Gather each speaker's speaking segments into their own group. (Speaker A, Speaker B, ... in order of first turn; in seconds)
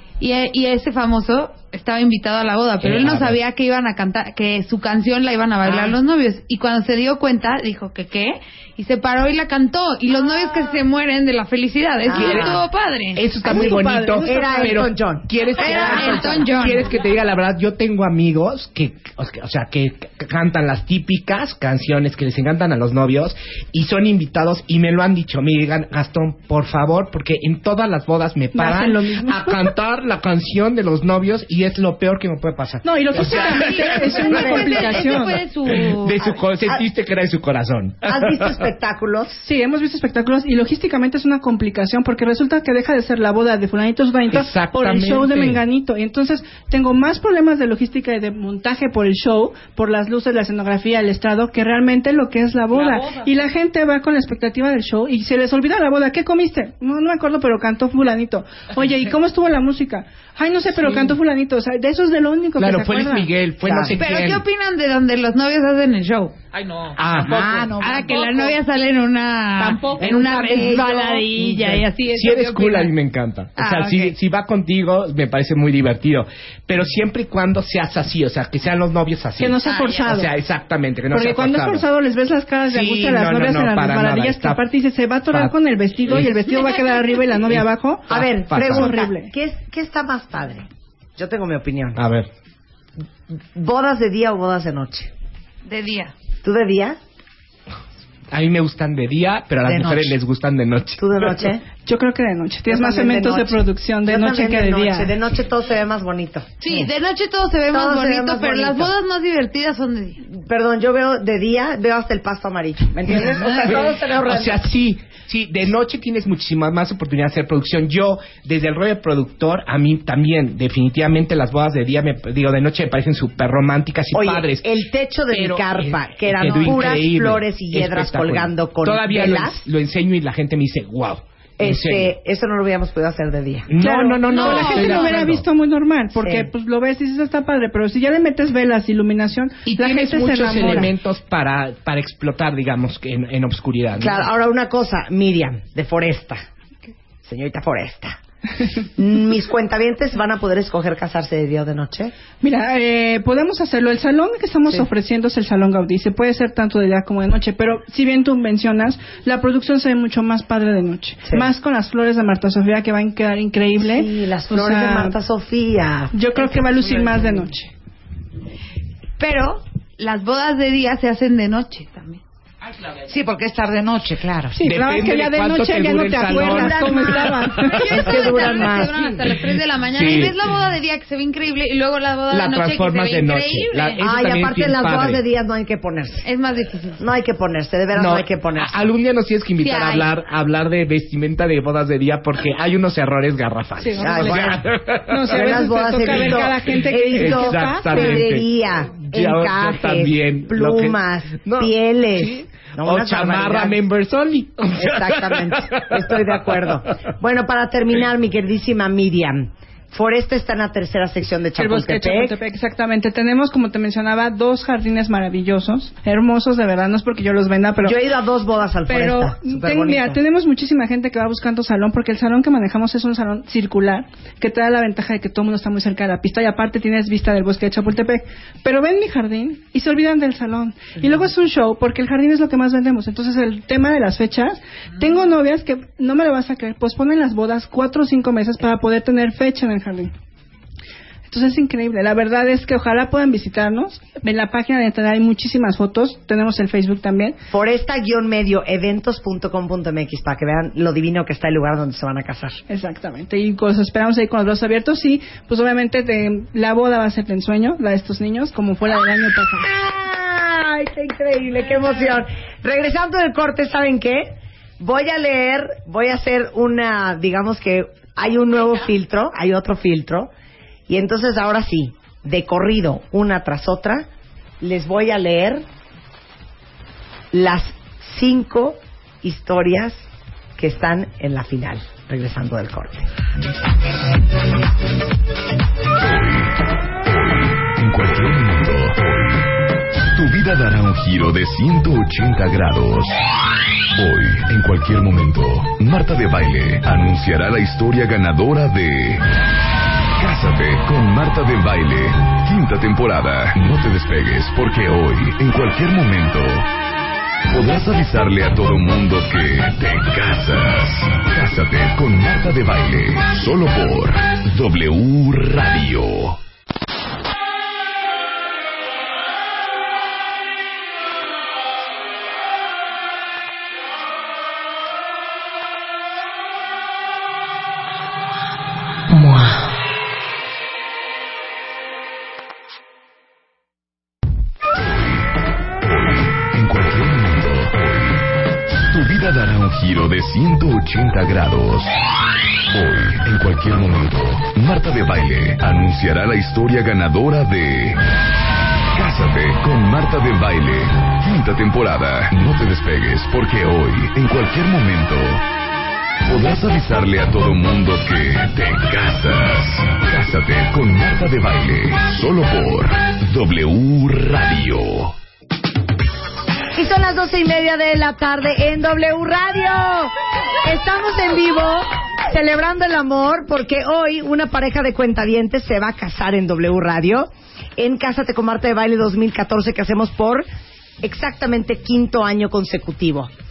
Speaker A: 0.2-13.3, 15.6-16.9, 33.5-36.4, 64.0-66.4, 67.8-73.0, 73.6-74.2, 79.7-80.1, 95.7-96.1, 106.6-110.2, 134.3-135.2, 169.2-172.2, 177.9-184.0, 186.2-187.0, 189.6-190.1
Speaker B: 2.8-3.4, 12.1-38.6, 44.3-45.6, 62.6-64.5, 67.0-67.7, 71.5-81.8, 82.7-84.6, 86.1-86.5, 87.3-89.0, 92.0-92.3, 98.3-101.3, 113.5-124.7, 125.3-132.1, 133.7-135.4, 139.7-144.3, 174.6-180.6, 182.3-185.2, 187.9-196.5, 197.2-205.8
Speaker C: 5.7-5.9, 12.1-12.6, 13.5-16.5, 34.4-34.7, 38.0-39.4, 63.6-64.0, 70.0-71.1, 88.1-92.0, 93.3-95.1, 96.4-97.0, 99.7-100.2, 101.0-101.6, 102.7-106.9, 107.7-109.0, 110.2-114.7, 124.1-129.7, 131.6-133.7, 134.4-134.9, 136.2-136.5, 144.0-146.4, 147.2-148.2, 149.0-152.2, 161.2-161.5, 163.8-167.2, 176.4-177.3, 177.8-179.1, 184.0-186.3, 187.0-188.8, 194.0-194.7, 195.3-203.8, 204.7-212.4, 217.8-220.2, 247.5-252.6, 259.6-270.3, 270.9-274.1, 274.6-275.6, 277.3-283.1, 366.8-380.5, 381.0-383.3
Speaker D: 13.4-14.8, 28.6-29.6, 32.8-35.4, 39.4-63.3, 79.4-80.3, 81.1-89.3, 101.8-105.1, 133.8-140.9, 152.4-165.2, 166.1-167.7, 174.5-177.8, 193.8-194.6, 195.1-198.2, 211.6-218.0, 218.9-240.1, 241.3-247.4, 252.7-259.7
Speaker E: 52.7-53.4, 66.5-68.5, 69.6-70.1
Speaker F: 67.2-68.5, 69.6-71.8, 173.1-174.6
Speaker G: 286.0-289.6, 290.1-293.2, 293.9-299.3, 300.2-306.7, 307.5-316.4, 334.8-335.2, 335.8-338.2, 338.9-341.9, 342.7-348.0, 348.9-355.4, 356.3-365.1